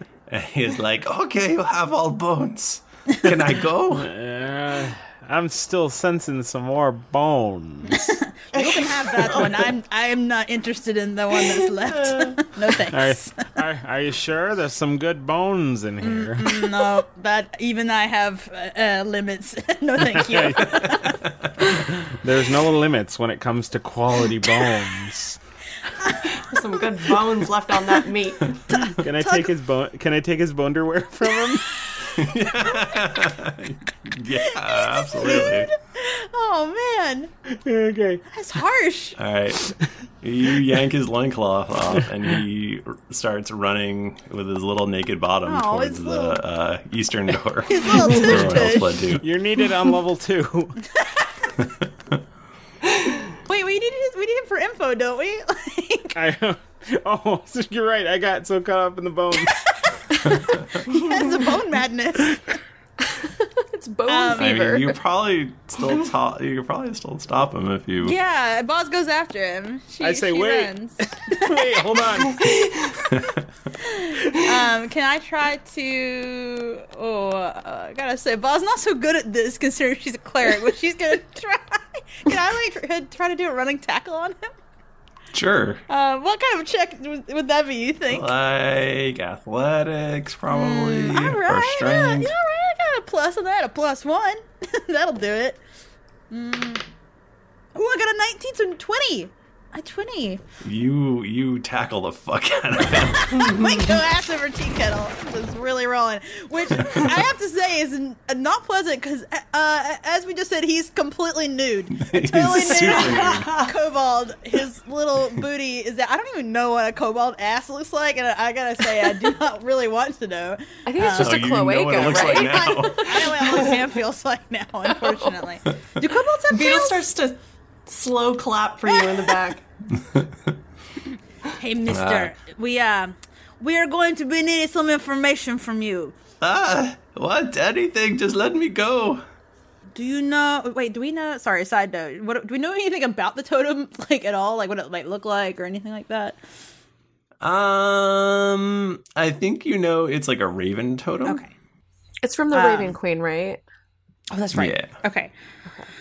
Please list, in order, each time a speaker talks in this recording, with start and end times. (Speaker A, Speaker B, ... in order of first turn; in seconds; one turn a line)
Speaker A: 0.3-4.1
Speaker B: 3.9-8.1
Speaker C: 7.9-13.3
Speaker D: 8.5-9.7
Speaker D: 11.5-12.3
Speaker B: 12.9-16.6
Speaker C: 16.0-21.2
Speaker B: 20.0-20.8
Speaker B: 21.9-25.4
Speaker D: 26.4-28.5
Speaker C: 28.7-29.5
Speaker B: 29.0-31.7
Speaker A: 32.2-35.7
Speaker C: 34.7-37.3
Speaker B: 37.5-38.2
Speaker C: 38.3-39.2
Speaker A: 39.2-39.7
Speaker A: 40.2-49.2
Speaker C: 45.5-46.4
Speaker C: 47.7-49.1
Speaker B: 49.2-50.8
Speaker C: 53.5-56.1
Speaker B: 56.1-59.6
Speaker C: 60.8-62.5
Speaker E: 63.0-65.0
Speaker C: 64.1-64.7
Speaker A: 64.4-68.2
Speaker C: 68.0-71.8
Speaker B: 70.0-72.5
Speaker C: 73.8-84.5
Speaker A: 85.3-85.8
Speaker C: 85.9-88.3
Speaker A: 88.1-92.3
Speaker C: 90.5-95.6
Speaker C: 96.3-96.8
Speaker C: 97.8-100.4
Speaker A: 100.6-103.5
Speaker C: 103.2-127.1
Speaker A: 112.0-113.6
Speaker E: 120.9-123.3
Speaker A: 121.1-123.2
Speaker E: 125.0-125.3
Speaker D: 126.5-129.6
Speaker C: 131.6-136.2
Speaker A: 131.9-132.3
Speaker A: 136.4-139.2
Speaker C: 139.9-146.4
Speaker A: 147.4-151.4
Speaker C: 151.2-151.5
Speaker E: 152.2-153.6
Speaker C: 152.5-153.0
Speaker C: 154.3-155.3
Speaker A: 154.5-154.9